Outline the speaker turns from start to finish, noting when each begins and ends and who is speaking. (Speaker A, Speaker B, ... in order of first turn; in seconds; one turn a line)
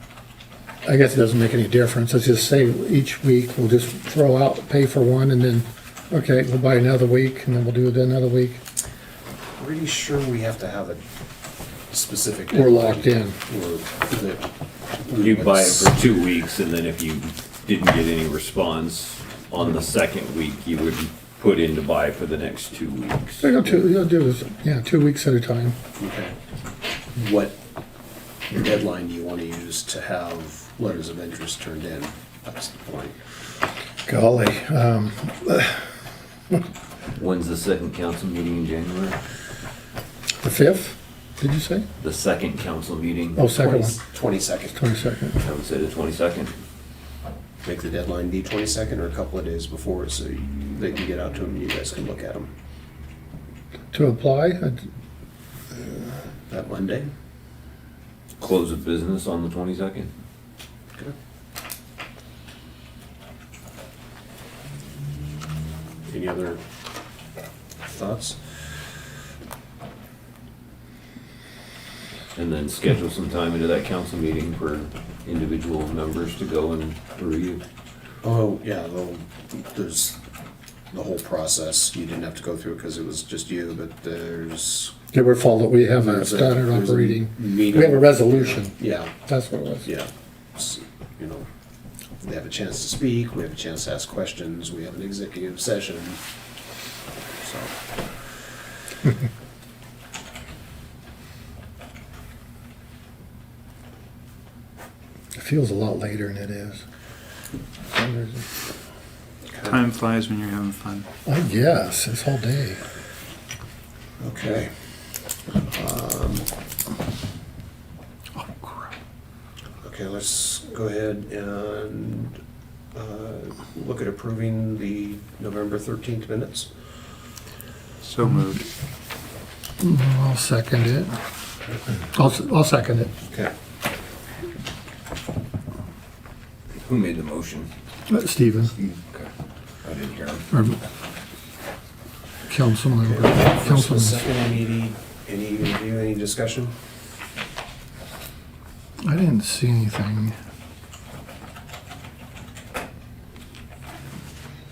Speaker A: 0.8-8.6
Speaker B: 9.6-11.0
Speaker B: 11.9-14.5
Speaker A: 12.5-13.4
Speaker B: 15.0-16.0
Speaker C: 15.2-23.5
Speaker A: 23.4-25.8
Speaker B: 26.0-26.4
Speaker B: 27.1-27.6
Speaker B: 28.5-33.2
Speaker A: 34.1-35.9
Speaker C: 37.2-39.2
Speaker A: 40.4-41.9
Speaker C: 42.0-43.4
Speaker A: 43.4-44.0
Speaker B: 43.5-44.8
Speaker A: 44.7-45.4
Speaker C: 45.4-46.6
Speaker B: 47.6-52.5
Speaker A: 53.9-54.9
Speaker B: 56.5-57.1
Speaker C: 58.4-60.1
Speaker B: 66.1-66.6
Speaker B: 67.9-68.5
Speaker C: 72.3-77.6
Speaker B: 78.2-80.2
Speaker B: 80.9-84.9
Speaker A: 85.1-89.9
Speaker B: 86.0-89.2
Speaker B: 89.8-91.5
Speaker B: 92.2-96.2
Speaker B: 97.4-97.8
Speaker A: 105.4-106.8
Speaker A: 107.9-108.5
Speaker B: 109.5-109.8
Speaker D: 109.7-111.1
Speaker A: 111.3-112.8
Speaker B: 114.2-114.7
Speaker B: 115.7-116.5
Speaker A: 118.4-118.9
Speaker B: 119.8-122.4
Speaker B: 122.9-126.7
Speaker D: 128.0-128.6
Speaker A: 129.8-131.2
Speaker A: 132.1-133.1
Speaker C: 136.8-137.7
Speaker A: 138.1-138.7
Speaker C: 138.7-139.3
Speaker C: 139.8-140.4
Speaker A: 140.5-140.8
Speaker A: 142.5-144.3
Speaker B: 143.0-146.8
Speaker A: 149.0-150.4